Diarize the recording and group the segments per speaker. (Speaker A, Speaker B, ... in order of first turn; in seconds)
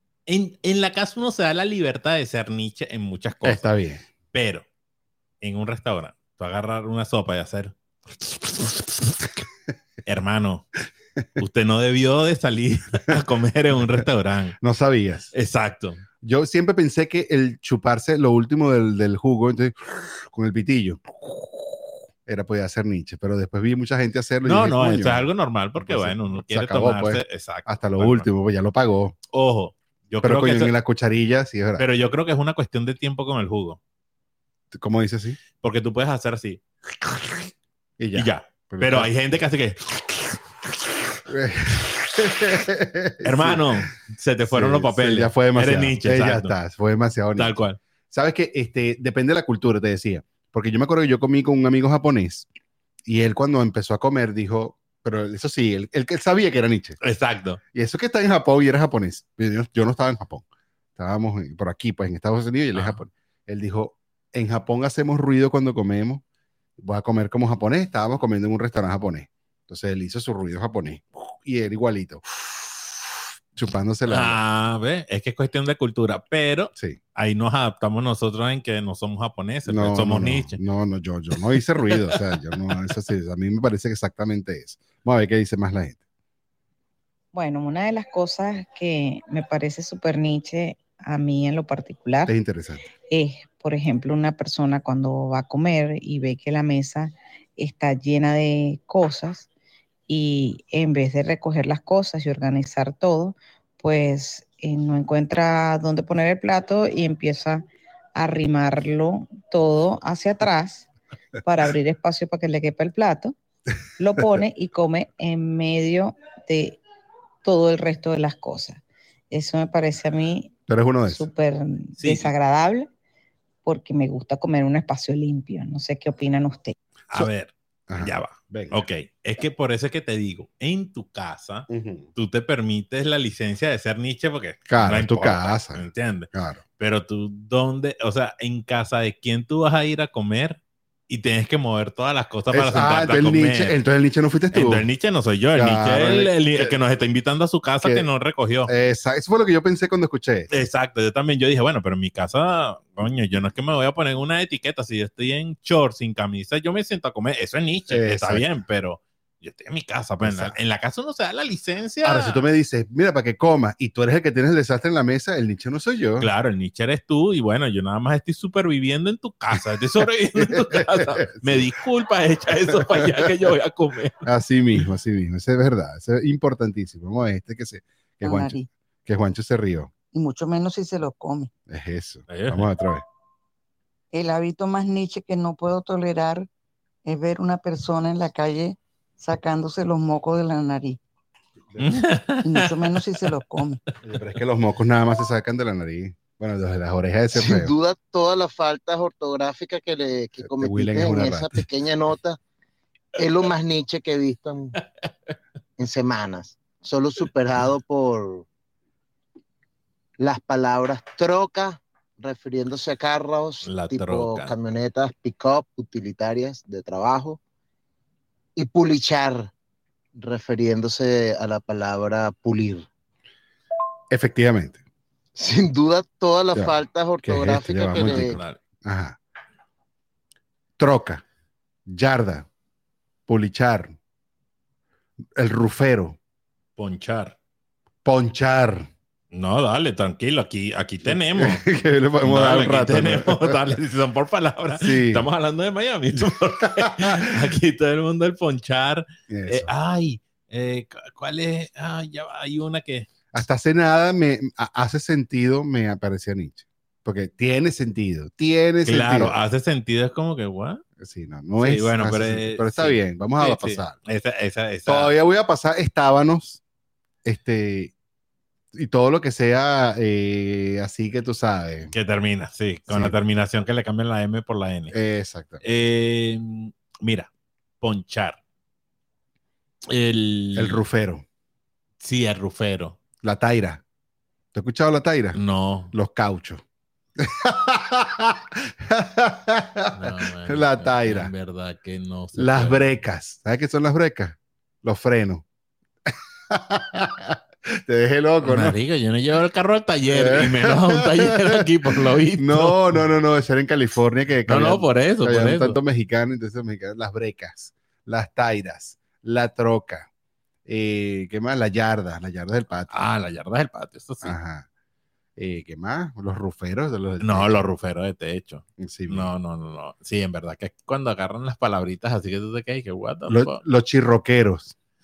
Speaker A: 0.3-3.6, 4.3-4.7, 5.4-9.2, 10.1-10.7, 11.4-14.6, 15.3-16.0, 24.4-28.3, 29.3-30.8, 31.8-33.8, 35.6-37.5, 38.1-40.9, 43.2-46.5, 47.4-47.8, 57.0-57.6, 62.8-63.0, 74.1-80.6, 81.9-82.2, 122.0-122.3, 127.1-143.8, 144.5-148.7, 150.5-162.4, 166.2-174.3, 182.3-182.7, 191.8-193.0, 213.6-214.6, 227.9-228.6, 236.8-237.3, 239.3-241.6, 242.2-253.1, 258.9-260.8, 261.6-265.1, 271.9-274.9, 275.6-277.3, 277.8-278.4, 279.9-280.8, 282.0-283.0, 285.3-285.9, 289.9-292.8, 298.4-303.0, 304.5-305.8, 312.9-314.4, 317.2-323.6
Speaker B: 3.4-4.1, 14.6-15.3, 16.2-21.0, 22.3-29.2, 30.2-31.9, 34.7-35.4, 38.0-39.1, 41.3-43.7, 44.5-47.6, 48.1-52.5, 53.1-57.0, 57.7-66.2, 66.8-72.9, 73.5-74.4, 79.7-86.0, 92.3-92.8, 120.7-121.3, 127.9-128.8, 131.7-132.1, 134.7-136.6, 142.5-144.9, 145.6-146.8, 147.8-148.1, 148.7-150.5, 157.9-158.5, 160.2-160.6, 162.0-166.3, 170.4-171.7, 172.9-173.3, 174.2-179.9, 181.7-183.1, 194.0-197.7, 200.4-201.7, 224.1-224.8, 226.6-229.2, 230.8-231.2, 231.9-232.5, 233.3-234.0, 235.4-236.2, 238.1-238.9, 241.1-243.6, 244.8-245.3, 246.8-247.1, 249.3-249.7, 253.3-259.4, 261.0-264.0, 264.9-266.6, 267.2-267.9, 268.7-271.9, 272.9-273.1, 274.9-275.6, 280.6-281.2, 283.2-283.8, 284.5-285.4, 285.9-286.6, 287.2-291.3, 292.4-295.4, 296.1-298.8, 300.1-301.6, 302.4-310.1, 310.7-312.9, 314.2-314.7, 315.4-317.6, 318.8-319.3, 323.3-324.7
Speaker C: 87.3-92.3, 93.1-99.5, 100.1-110.9, 111.4-113.3, 114.0-116.8, 117.4-120.6, 121.1-122.9, 123.6-126.8
Speaker D: 178.2-178.7, 180.1-181.5, 184.1-186.5, 187.1-191.0, 192.4-193.8
Speaker E: 197.3-202.4, 203.2-204.8, 205.8-208.5, 210.2-217.4, 218.6-219.5, 220.2-222.9, 225.4-228.4